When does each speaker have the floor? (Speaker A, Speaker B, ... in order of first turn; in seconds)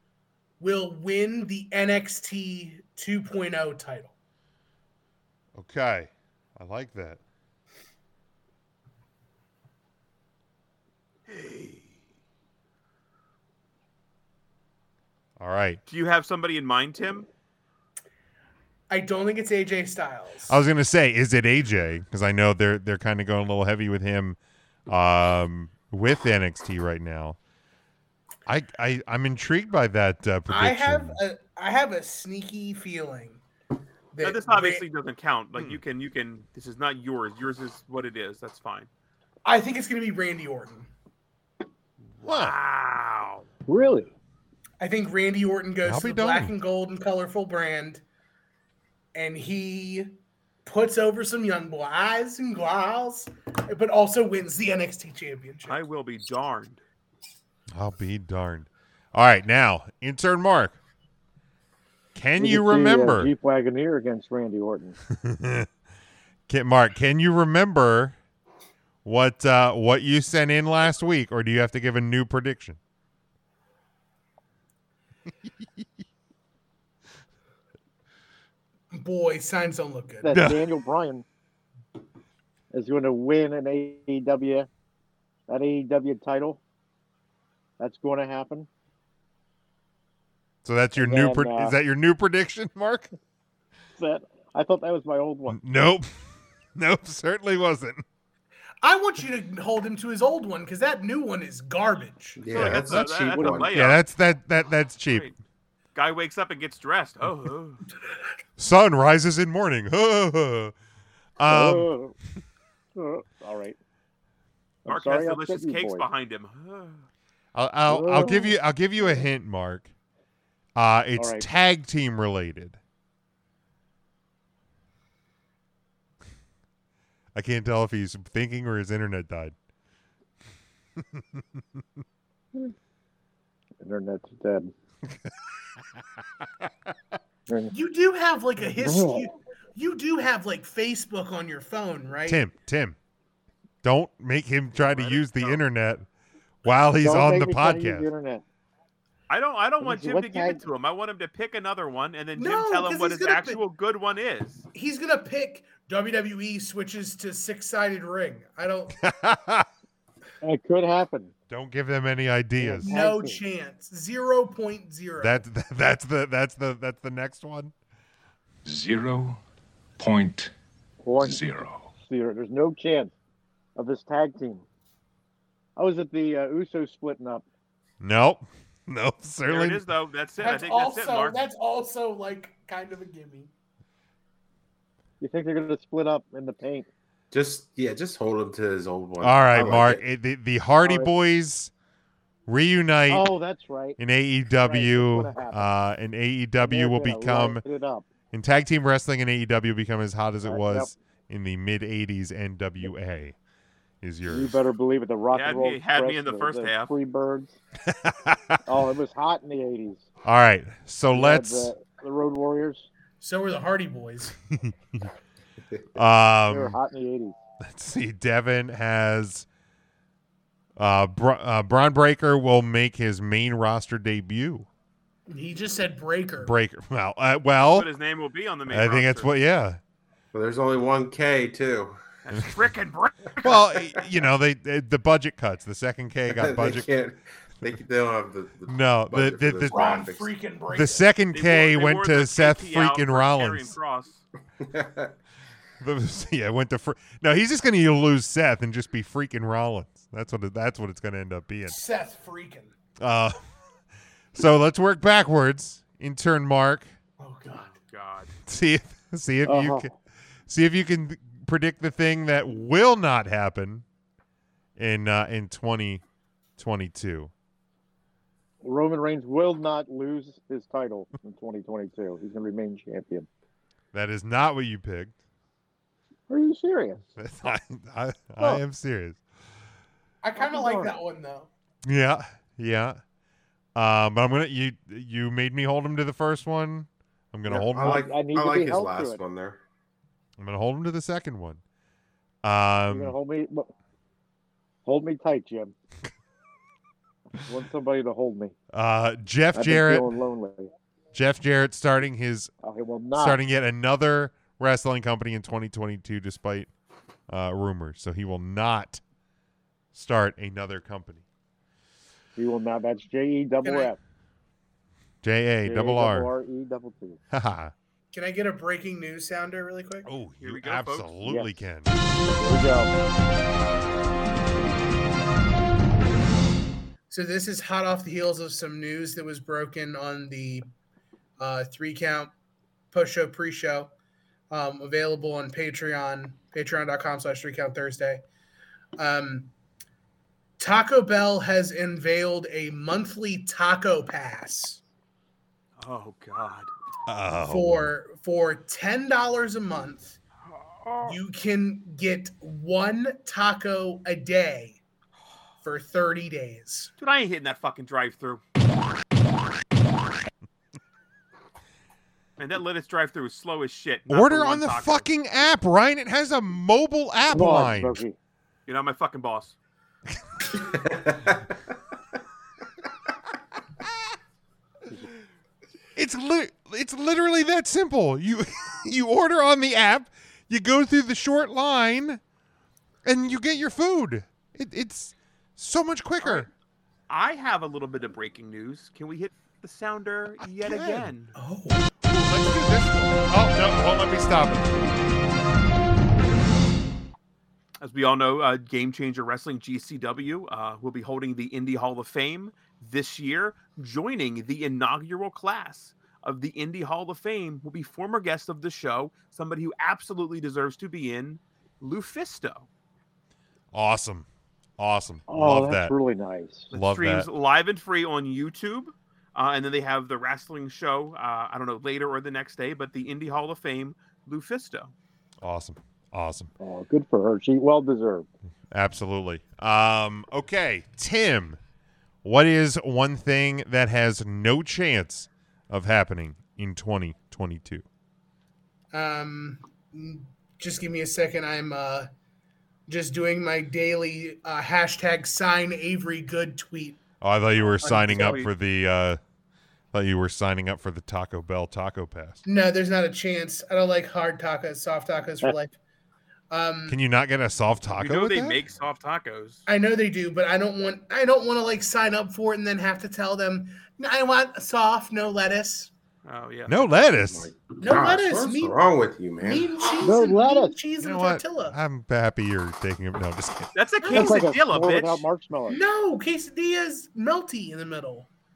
Speaker A: 0.6-4.1, 18.9-20.6, 30.5-33.4, 34.1-34.8, 39.4-40.9, 44.8-48.0, 49.1-55.8, 78.9-80.3, 98.8-102.4, 137.7-142.4, 152.3-153.6, 154.7-159.0, 162.8-165.4, 180.4-183.5, 213.2-214.3, 225.3-226.5, 239.7-241.0, 251.7-252.7, 257.2-257.8, 280.2-281.5, 313.6-313.9, 318.1-320.1, 327.1-330.6, 331.4-332.3, 332.9-333.9, 334.5-338.2, 339.0-339.5, 340.6-344.8, 347.4-350.2, 351.0-354.8, 355.6-356.9, 391.3-391.8, 438.9-442.1, 442.9-447.0, 447.8-448.4, 452.4-455.7, 456.5-457.0, 459.6-465.9, 467.8-468.8, 469.4-471.8, 474.0-474.5, 475.7-478.3
Speaker B: 5.5-7.2, 15.4-15.8, 20.5-27.4, 28.4-31.1, 42.2-42.5, 45.8-46.5, 57.7-60.8, 62.1-63.3, 65.1-65.7, 66.5-68.2, 69.0-72.8, 80.3-80.6, 90.6-93.1, 95.5-96.1, 96.7-98.0, 102.5-105.3, 108.6-110.7, 111.4-111.9, 117.5-119.9, 120.8-122.8, 127.3-129.5, 131.1-131.6, 142.2-143.0, 143.8-146.1, 146.6-148.1, 159.0-159.7, 161.5-162.9, 165.2-167.7, 178.0-179.8, 189.2-191.7, 192.5-193.3, 194.0-197.6, 198.3-203.3, 204.0-204.6, 207.9-208.6, 210.2-211.7, 214.6-215.0, 215.9-216.8, 217.6-219.4, 220.8-224.7, 226.4-227.9, 228.7-229.8, 233.4-236.9, 238.7-240.0, 240.7-243.7, 245.8-251.8, 253.0-253.4, 254.3-256.9, 258.5-259.9, 260.5-263.8, 264.8-266.0, 266.6-267.3, 273.9-275.1, 277.1-279.2, 281.8-283.0, 283.7-288.1, 290.4-291.6, 292.4-293.1, 298.7-300.1, 301.1-302.5, 303.1-306.7, 307.3-309.0, 309.9-311.2, 315.2-316.3, 317.3-317.7, 320.1-321.9, 347.1-347.9, 364.1-368.0, 375.9-382.2, 383.0-386.5, 390.4-391.1, 392.0-394.7, 413.7-414.3, 414.8-415.9, 416.7-417.3, 425.4-426.5, 428.7-431.6, 432.2-437.8, 447.2-449.2, 449.9-452.4, 456.9-458.6, 466.7-467.5, 471.0-473.7
Speaker C: 11.3-11.8, 15.9-17.3, 34.2-38.9, 42.2-43.5, 55.6-56.8, 102.5-104.0, 105.1-105.3, 105.9-107.8, 114.9-117.0, 144.8-145.6, 149.3-154.6, 179.5-181.4, 205.3-206.9, 227.7-229.3, 232.2-233.7, 241.3-244.2, 257.5-258.3, 320.4-321.1, 345.8-346.7, 350.8-351.1, 357.0-358.4, 362.4-365.1, 368.7-369.6, 386.2-386.5, 387.1-391.3, 397.8-412.7, 416.7-424.9, 447.8-448.5, 457.9-459.6, 466.2-467.1, 473.7-475.2
Speaker D: 43.7-44.1, 62.4-65.0, 80.2-81.2, 82.7-84.7, 85.5-86.6, 87.8-88.7, 91.0-91.8, 94.0-95.6, 111.5-112.1, 113.0-113.8, 114.8-116.0, 117.9-119.2, 121.2-121.5, 133.8-134.7, 138.8-139.3, 147.0-148.4, 149.8-150.6, 160.4-161.3, 162.6-163.4, 171.0-171.4, 172.0-173.1, 173.8-174.6, 175.8-177.4, 185.2-186.9, 190.8-191.1, 193.1-194.0, 194.6-195.7, 196.6-198.1, 200.4-200.9, 204.2-207.6, 208.7-210.1, 211.1-212.9, 216.5-217.4, 259.4-259.9, 268.6-273.3, 276.3-277.0, 280.4-280.9, 287.4-289.2, 292.9-293.7, 294.9-295.7, 297.4-298.5, 299.5-300.7, 302.6-303.4, 312.4-314.0, 315.6-317.2, 321.2-321.5, 322.4-322.9, 367.3-368.1, 415.3-416.7, 426.6-428.3, 470.0-470.7, 474.1-475.8
Speaker E: 102.4-103.7, 187.3-190.0, 230.3-232.0, 236.3-240.3, 244.6-245.1, 287.6-289.6, 370.6-371.4, 467.3-469.8
Speaker F: 168.6-169.4, 170.0-170.5, 171.2-171.9